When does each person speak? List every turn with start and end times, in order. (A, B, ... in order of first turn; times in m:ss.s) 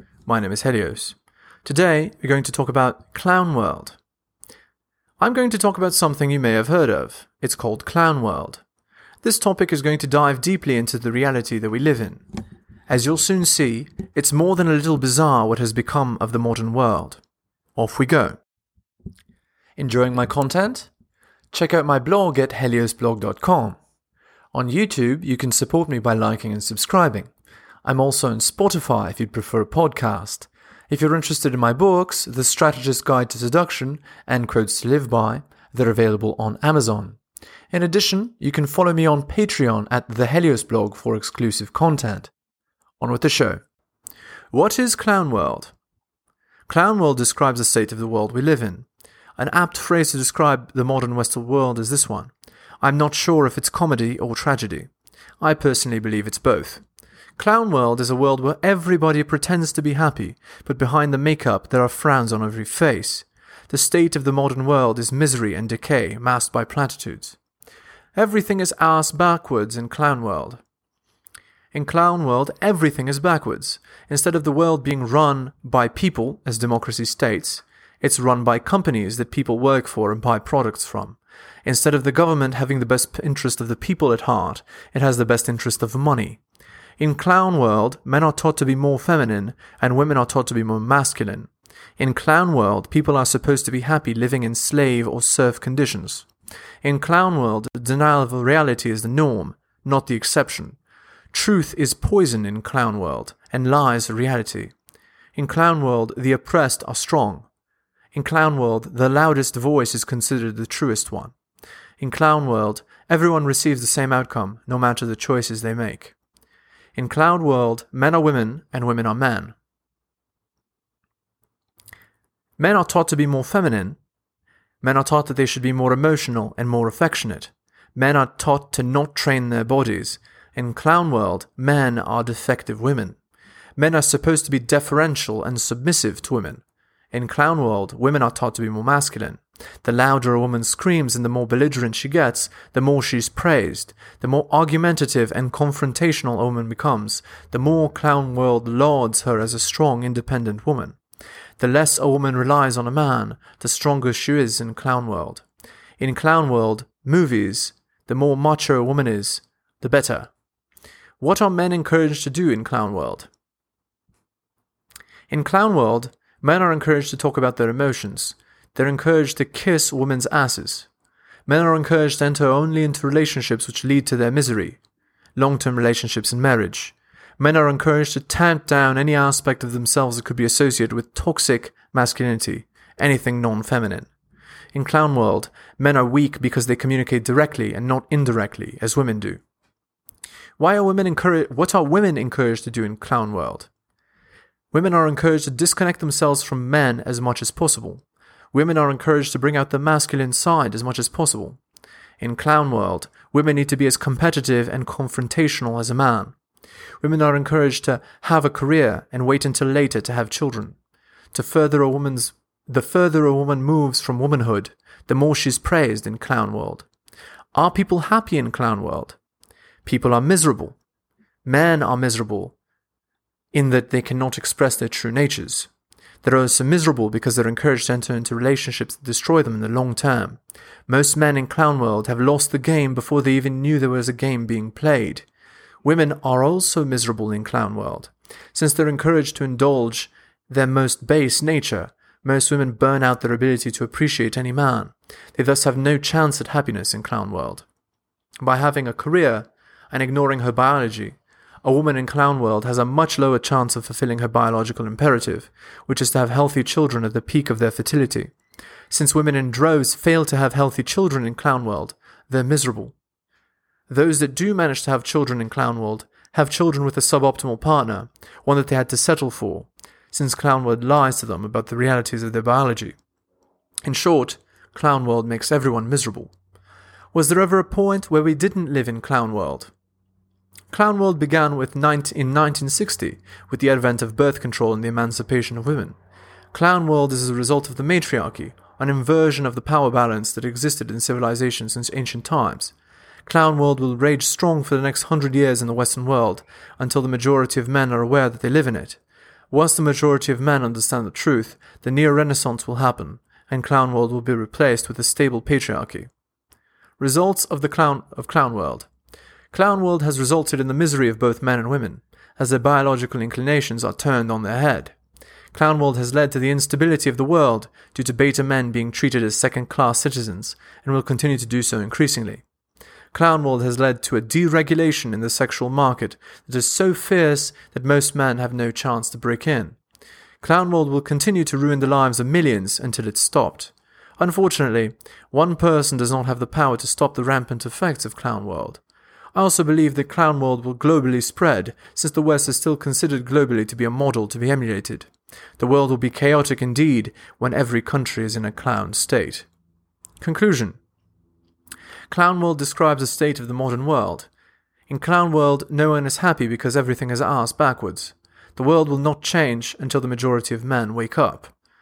0:00.2-0:04.0 A
0:05.2-0:08.6 A
0:09.2-0:12.2 A
0:12.9-0:17.2 A
0:17.8-0:18.4 A
0:19.8-0:20.9 A
0:21.5-0:23.8 A
0:24.5-0:27.3 A
0:27.8-0:37.2 A
0:37.7-0:42.3 A
0:43.0-0:43.6 A
0:44.5-0:45.7 A
0:46.7-0:56.8 A
0:57.4-1:07.4 A
1:08.1-1:10.6 A
1:11.7-1:26.4 A
1:27.0-1:36.3 A
1:36.8-1:40.8 A
1:41.3-1:44.7 A
1:45.3-1:47.5 A
1:48.1-1:51.3 A
1:52.0-1:56.1 A
1:56.9-1:59.5 A
2:02.6-2:04.0 A
2:04.8-2:13.2 A
2:13.8-2:31.0 A
2:31.6-2:35.4 A
2:36.0-2:40.3 A
2:41.2-2:43.3 A
2:45.3-2:50.9 A
2:51.5-2:54.8 A
2:55.4-3:04.1 A
3:04.7-3:09.4 A
3:10.6-3:13.7 A
3:14.7-3:21.6 A
3:22.2-3:26.4 A
3:27.0-3:30.8 A
3:31.3-3:36.9 A
3:37.5-3:39.2 A
3:39.8-3:40.8 A
3:41.4-3:42.5 A
3:43.5-3:45.7 A
3:46.2-3:55.3 A
3:55.8-4:07.6 A
4:08.4-4:18.3 A
4:18.9-4:22.9 A
4:23.9-4:33.0 A
4:33.8-4:36.3 A
4:37.1-4:39.7 A
4:40.7-4:46.0 A
4:46.5-4:52.7 A
4:53.2-4:59.0 A
4:59.5-5:06.1 A
5:07.0-5:08.9 A
5:09.5-5:14.9 A
5:15.5-5:22.4 A
5:23.1-5:29.8 A
5:30.4-5:38.8 A
5:39.3-5:49.5 A
5:50.2-5:50.8 A
5:52.1-5:54.3 A
5:54.9-6:01.5 A